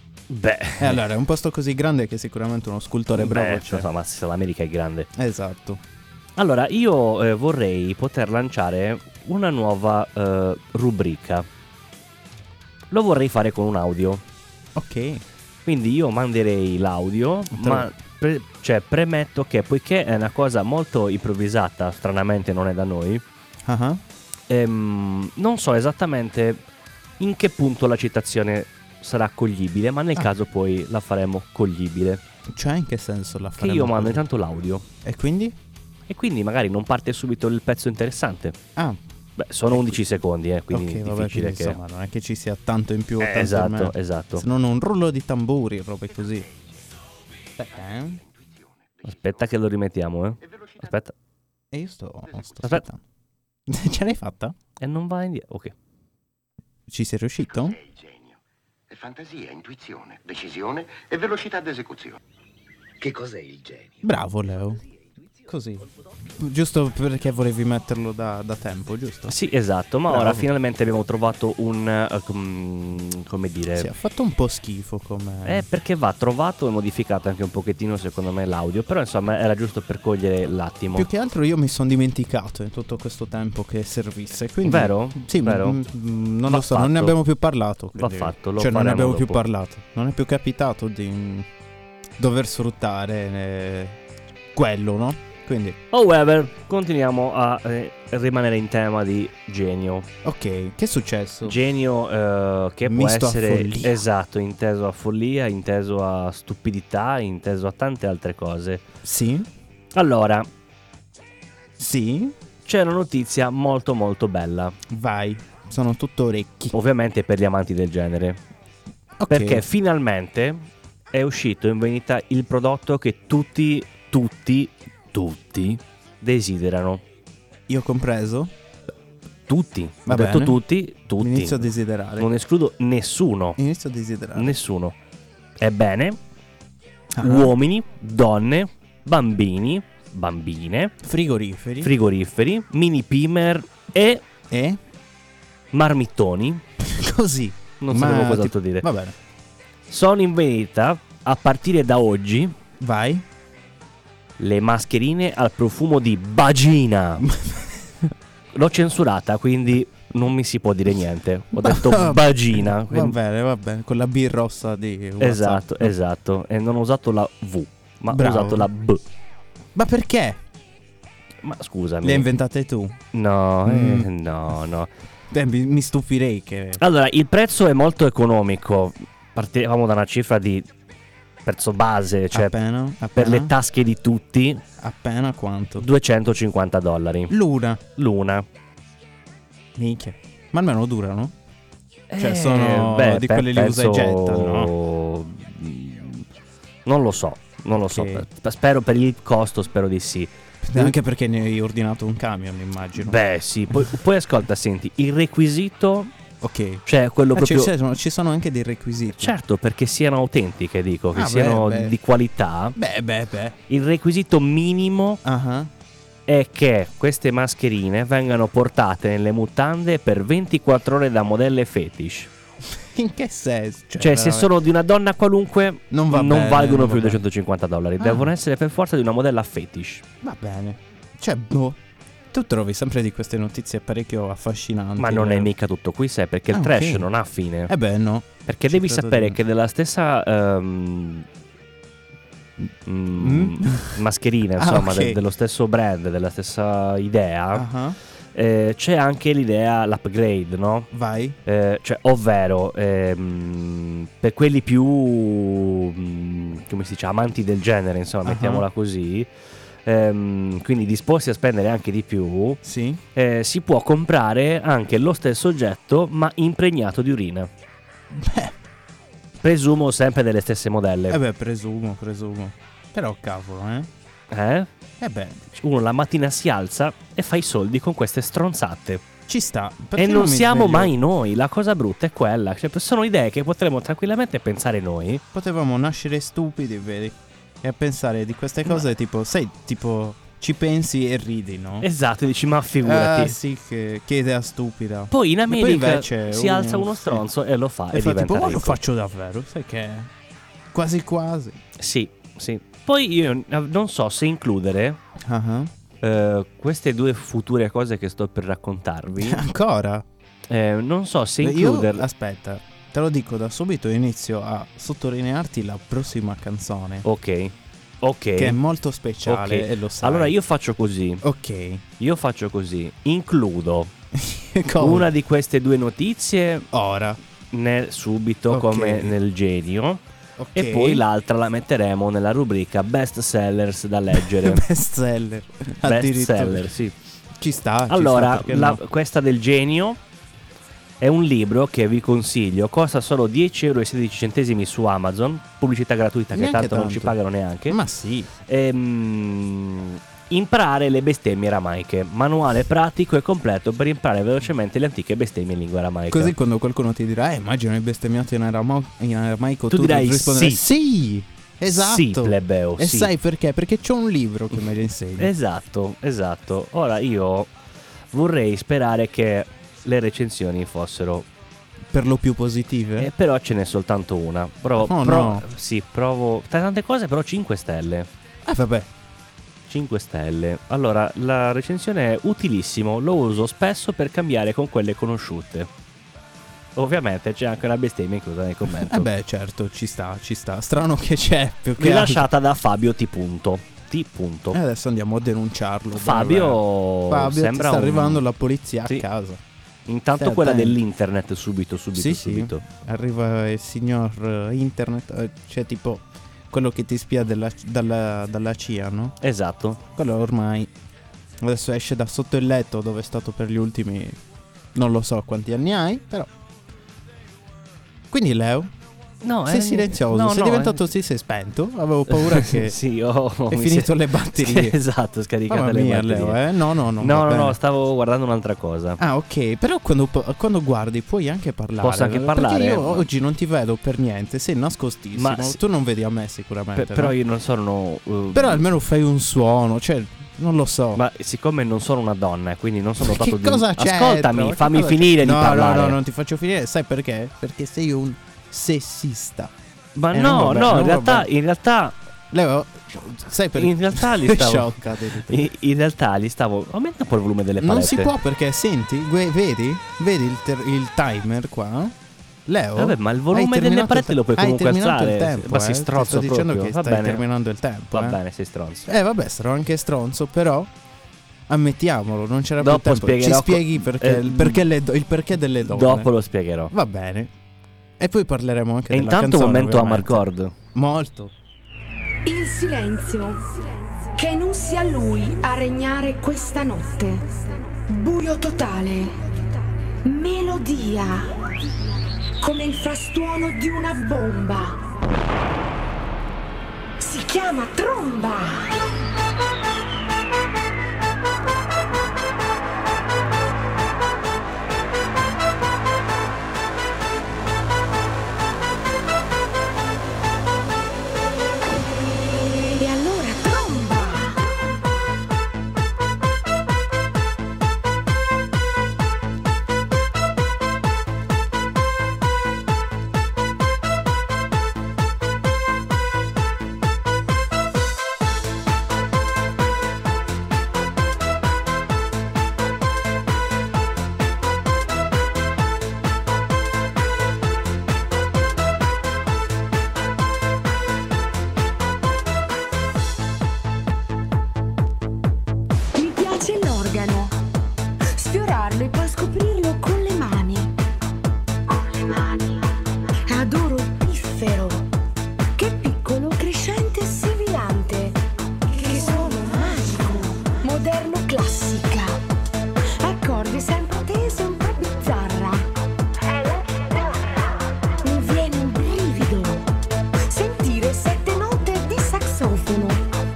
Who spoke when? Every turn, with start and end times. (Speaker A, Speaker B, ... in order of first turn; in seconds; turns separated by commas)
Speaker A: 0.3-1.1, Speaker B: 0.8-3.9, Speaker A: 3.1-5.1, Speaker B: 5.1-5.8, Speaker A: 6.3-11.4, Speaker A: 12.9-14.2, Speaker B: 14.7-15.2, Speaker A: 15.7-23.2, Speaker B: 17.5-17.9, Speaker B: 23.6-24.0, Speaker A: 24.5-26.6, Speaker A: 27.2-32.2, Speaker B: 32.5-34.2, Speaker A: 33.6-34.9, Speaker B: 35.0-35.5, Speaker A: 36.1-38.6, Speaker A: 39.4-41.8, Speaker B: 39.7-40.0, Speaker B: 40.7-46.5, Speaker A: 43.2-44.5, Speaker B: 47.6-48.2, Speaker C: 47.8-49.5, Speaker A: 49.0-51.1, Speaker C: 50.4-50.9, Speaker B: 51.7-53.0, Speaker C: 52.3-52.5, Speaker B: 53.7-54.5, Speaker A: 54.8-55.7, Speaker B: 56.9-57.8, Speaker C: 57.5-58.4, Speaker C: 58.9-62.2, Speaker C: 63.0-64.1, Speaker B: 64.0-64.8, Speaker B: 65.5-65.8, Speaker B: 66.4-69.3, Speaker A: 69.3-73.9, Speaker B: 70.1-70.5, Speaker B: 73.8-75.7, Speaker A: 75.4-81.1, Speaker B: 80.9-91.5, Speaker A: 84.6-85.8, Speaker A: 86.5-87.2, Speaker A: 88.0-89.4, Speaker B: 92.2-94.0, Speaker B: 94.5-95.8, Speaker A: 95.9-100.1, Speaker B: 100.2-101.6, Speaker A: 101.4-108.8, Speaker B: 102.8-104.0, Speaker B: 109.0-109.5, Speaker A: 109.9-110.5, Speaker B: 111.8-112.3, Speaker A: 112.6-114.8, Speaker B: 114.9-116.7, Speaker A: 116.7-118.4, Speaker B: 119.2-119.6, Speaker A: 119.3-127.0, Speaker B: 127.7-128.5, Speaker A: 129.5-131.7, Speaker B: 130.1-130.6, Speaker B: 131.2-132.3, Speaker A: 132.2-133.6, Speaker B: 133.6-134.5, Speaker A: 134.3-134.9, Speaker A: 135.6-136.2, Speaker B: 137.2-137.6, Speaker A: 137.2-140.9, Speaker B: 141.0-141.9, Speaker A: 141.8-144.2, Speaker B: 144.5-144.8, Speaker A: 145.7-146.6, Speaker B: 146.8-149.1, Speaker A: 147.8-148.9, Speaker A: 149.9-152.5, Speaker B: 152.8-153.2, Speaker A: 154.4-157.3, Speaker B: 157.2-158.1, Speaker A: 158.5-163.2, Speaker B: 161.5-165.9, Speaker A: 165.2-169.0, Speaker B: 168.1-168.7, Speaker B: 169.7-170.4, Speaker A: 171.4-172.3, Speaker B: 172.0-173.0, Speaker A: 173.1-174.9, Speaker B: 173.6-174.1, Speaker B: 175.3-176.8, Speaker A: 176.8-180.7, Speaker A: 181.4-182.5, Speaker B: 182.3-183.5, Speaker A: 183.1-184.6, Speaker B: 184.8-185.9, Speaker A: 185.8-187.3, Speaker B: 187.3-187.8, Speaker A: 187.9-188.4, Speaker B: 189.7-191.3, Speaker A: 192.1-196.2, Speaker B: 192.2-194.7, Speaker A: 196.8-200.9, Speaker B: 197.8-198.2, Speaker B: 200.6-203.2, Speaker A: 203.0-206.1, Speaker B: 206.4-209.3, Speaker A: 206.8-207.7, Speaker A: 209.2-212.8, Speaker B: 211.1-212.0, Speaker B: 212.8-213.6, Speaker A: 213.7-215.2, Speaker B: 215.2-215.7, Speaker A: 216.3-222.3, Speaker B: 222.7-224.5, Speaker A: 224.0-230.0, Speaker B: 225.9-227.2, Speaker B: 228.0-228.3, Speaker B: 230.2-231.8, Speaker B: 232.3-235.5, Speaker A: 235.0-237.7, Speaker B: 236.5-237.1, Speaker B: 237.7-239.4, Speaker A: 238.5-241.2, Speaker A: 242.8-247.7, Speaker B: 243.1-244.0, Speaker B: 244.6-245.2, Speaker B: 247.5-248.0, Speaker A: 248.3-250.9, Speaker B: 250.9-251.4, Speaker A: 251.4-259.3, Speaker B: 258.2-258.6, Speaker A: 259.9-262.6, Speaker B: 262.6-263.0, Speaker A: 263.1-267.5, Speaker B: 268.1-268.5, Speaker A: 269.4-271.2, Speaker B: 271.1-273.9, Speaker A: 274.3-274.7, Speaker B: 275.0-275.4, Speaker A: 275.5-279.0, Speaker B: 279.3-280.9, Speaker A: 280.0-285.2, Speaker B: 285.3-291.9, Speaker A: 291.8-293.4, Speaker B: 292.8-297.2, Speaker A: 295.1-298.8, Speaker B: 297.9-300.1, Speaker B: 300.7-301.6, Speaker A: 301.8-305.0, Speaker B: 305.2-305.7, Speaker A: 306.0-309.4, Speaker B: 309.2-310.0, Speaker A: 310.5-312.1, Speaker B: 311.4-317.0, Speaker A: 317.0-318.6, Speaker B: 318.4-320.3, Speaker A: 319.2-321.2, Speaker B: 321.2-321.8, Speaker A: 322.0-323.9, Speaker B: 324.1-325.1, Speaker A: 324.8-326.7, Speaker B: 326.7-327.2, Speaker A: 327.5-330.0, Speaker B: 328.5-329.1, Speaker B: 330.4-331.0, Speaker A: 330.5-334.6, Speaker B: 334.1-336.7, Speaker A: 335.8-336.9, Speaker B: 337.4-338.8, Speaker A: 337.9-340.0, Speaker A: 341.0-347.8, Speaker B: 346.3-347.2, Speaker B: 347.7-348.3, Speaker A: 348.5-356.3, Speaker B: 356.1-365.3, Speaker A: 359.7-360.6, Speaker A: 361.7-363.1, Speaker A: 365.2-367.5, Speaker A: 368.1-371.3, Speaker B: 371.9-373.1, Speaker A: 373.0-378.1, Speaker B: 374.8-375.4, Speaker B: 378.4-378.9, Speaker A: 379.7-385.7, Speaker A: 386.8-389.1, Speaker B: 388.6-392.3, Speaker A: 391.8-394.6, Speaker B: 394.5-399.4, Speaker A: 395.9-398.2, Speaker A: 399.9-402.6, Speaker B: 400.2-400.8, Speaker B: 401.9-409.2, Speaker A: 409.2-409.8, Speaker B: 409.9-410.7, Speaker B: 411.4-414.2, Speaker B: 414.7-416.3, Speaker B: 418.1-418.7, Speaker A: 419.2-420.9, Speaker B: 419.5-422.8, Speaker A: 422.1-426.4, Speaker B: 423.5-424.8, Speaker B: 425.5-427.6, Speaker A: 427.0-429.0, Speaker B: 429.0-437.1, Speaker A: 431.8-433.1, Speaker A: 435.1-435.6, Speaker A: 436.8-438.6, Speaker B: 438.3-441.0, Speaker A: 440.9-446.0, Speaker B: 443.0-449.5, Speaker A: 449.9-451.9, Speaker B: 450.1-451.3, Speaker B: 452.3-455.5, Speaker A: 453.6-454.7, Speaker A: 455.3-458.1, Speaker B: 457.6-468.2, Speaker A: 462.8-467.2, Speaker A: 467.9-468.9, Speaker B: 468.9-470.7, Speaker B: 471.5-476.1, Speaker A: 472.6-474.6, Speaker A: 475.6-476.7, Speaker B: 476.7-477.3, Speaker B: 478.0-481.3, Speaker A: 478.9-480.5, Speaker D: 482.2-483.6, Speaker D: 484.1-489.2, Speaker D: 490.0-491.5, Speaker D: 492.4-494.9, Speaker D: 497.0-498.8, Speaker D: 512.8-514.5, Speaker D: 546.0-547.4, Speaker D: 548.1-550.7, Speaker D: 551.7-552.7, Speaker D: 553.2-554.9, Speaker D: 555.5-562.2, Speaker D: 563.0-565.7, Speaker D: 566.2-567.5, Speaker D: 568.0-569.7, Speaker D: 570.3-573.0